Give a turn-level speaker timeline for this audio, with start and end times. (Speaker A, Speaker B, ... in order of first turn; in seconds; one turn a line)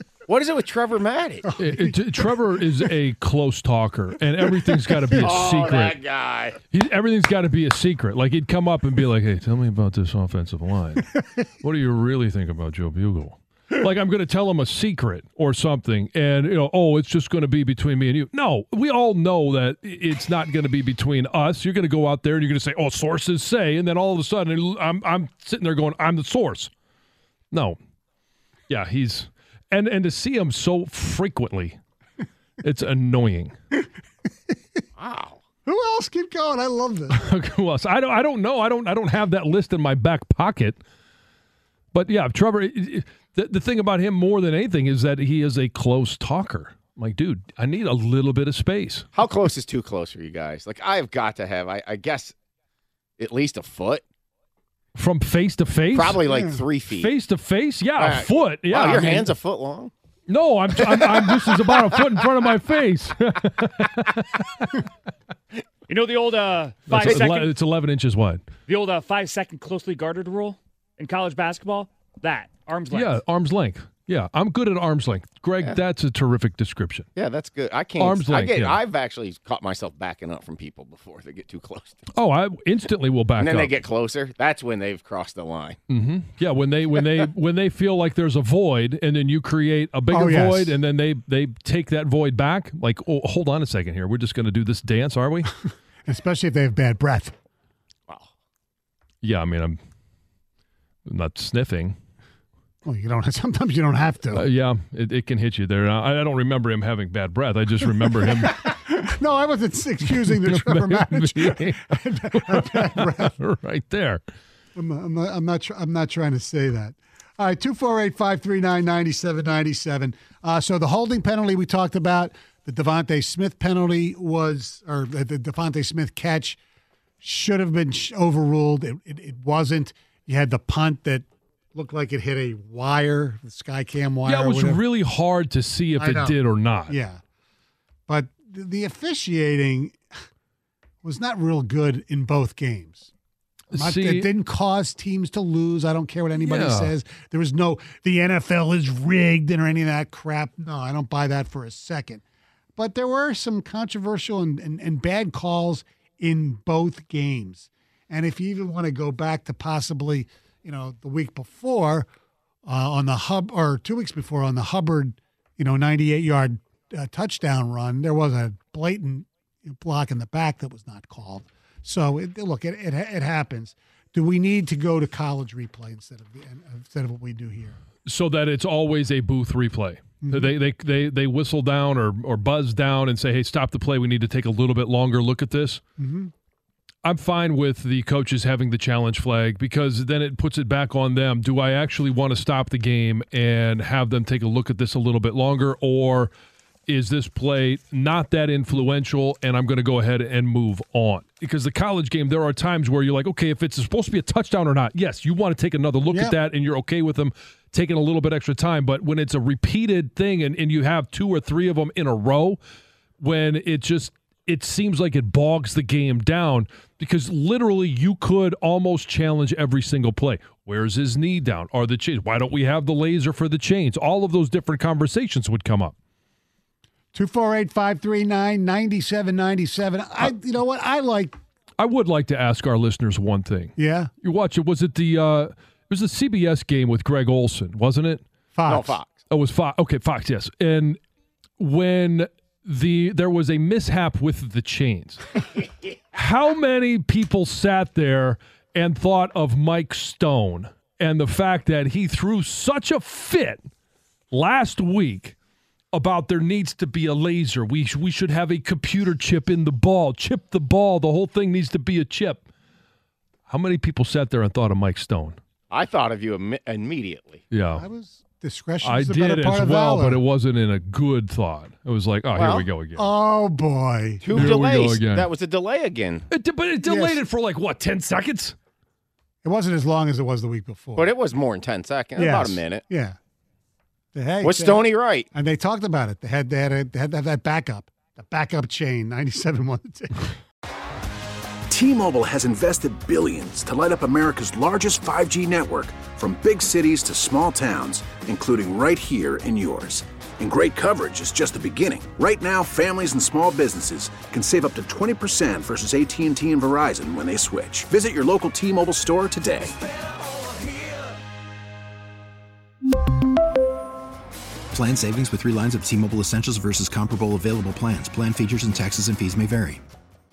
Speaker A: 0.3-1.5
Speaker B: 1.4-2.3
Speaker C: 1.6-6.0
Speaker A: 5.2-6.6
Speaker C: 6.7-26.7
Speaker C: 27.5-27.8
Speaker C: 28.7-31.8
Speaker C: 32.6-33.5
Speaker A: 35.0-35.4
Speaker B: 35.6-37.2
Speaker C: 37.1-40.8
Speaker C: 41.9-49.1
Speaker A: 49.1-52.3
Speaker A: 53.2-54.0
Speaker C: 55.0-56.2
Speaker A: 55.9-57.1
Speaker B: 56.2-56.6
Speaker C: 56.9-59.3
Speaker A: 58.0-59.9
Speaker C: 60.3-64.6
Speaker A: 61.0-61.8
Speaker D: 65.9-67.6
Speaker C: 66.9-68.5
Speaker A: 67.0-67.3
Speaker D: 68.7-73.2
Speaker C: 72.9-77.1
Speaker A: 77.2-82.0
Speaker C: 78.0-78.8
Speaker C: 82.1-83.7
Speaker A: 83.4-85.8
Speaker C: 85.9-95.5
Speaker B: 90.1-90.8
Speaker B: 96.0-97.3
Speaker C: 99.2-99.8
Speaker C: 101.1-102.0
Speaker B: 102.8-104.5
Speaker C: 104.3-108.7
Speaker B: 108.2-113.3
Speaker C: 110.0-114.2
Speaker B: 114.8-126.6
Speaker B: 127.2-134.8
Speaker C: 134.2-136.9
Speaker B: 136.0-137.2
Speaker B: 138.1-140.0
Speaker B: 141.0-143.1
Speaker C: 143.7-144.3
Speaker B: 143.7-152.2
Speaker C: 146.4-146.9
Speaker B: 152.8-162.1
Speaker B: 162.7-177.8
Speaker C: 178.1-185.8
Speaker B: 180.2-180.5
Speaker B: 186.0-186.3
Speaker C: 187.0-196.3
Speaker C: 196.9-212.6
Speaker B: 206.1-206.3
Speaker C: 213.2-225.9
Speaker B: 227.1-231.4
Speaker C: 231.8-238.2
Speaker B: 233.8-234.1
Speaker B: 238.6-239.0
Speaker A: 238.7-239.2
Speaker C: 239.3-241.0
Speaker C: 241.6-245.4
Speaker C: 246.1-253.6
Speaker C: 254.3-255.4
Speaker C: 255.9-262.4
Speaker C: 263.5-265.4
Speaker A: 265.7-267.4
Speaker C: 267.5-267.9
Speaker B: 267.7-270.2
Speaker C: 268.8-273.1
Speaker A: 272.3-272.7
Speaker B: 273.0-274.4
Speaker A: 274.2-276.3
Speaker C: 274.3-275.3
Speaker C: 276.3-278.6
Speaker B: 276.8-277.2
Speaker B: 279.4-281.2
Speaker A: 281.0-282.8
Speaker B: 282.2-283.2
Speaker B: 284.1-290.3
Speaker A: 284.4-285.3
Speaker E: 291.7-309.7
Speaker F: 314.7-319.8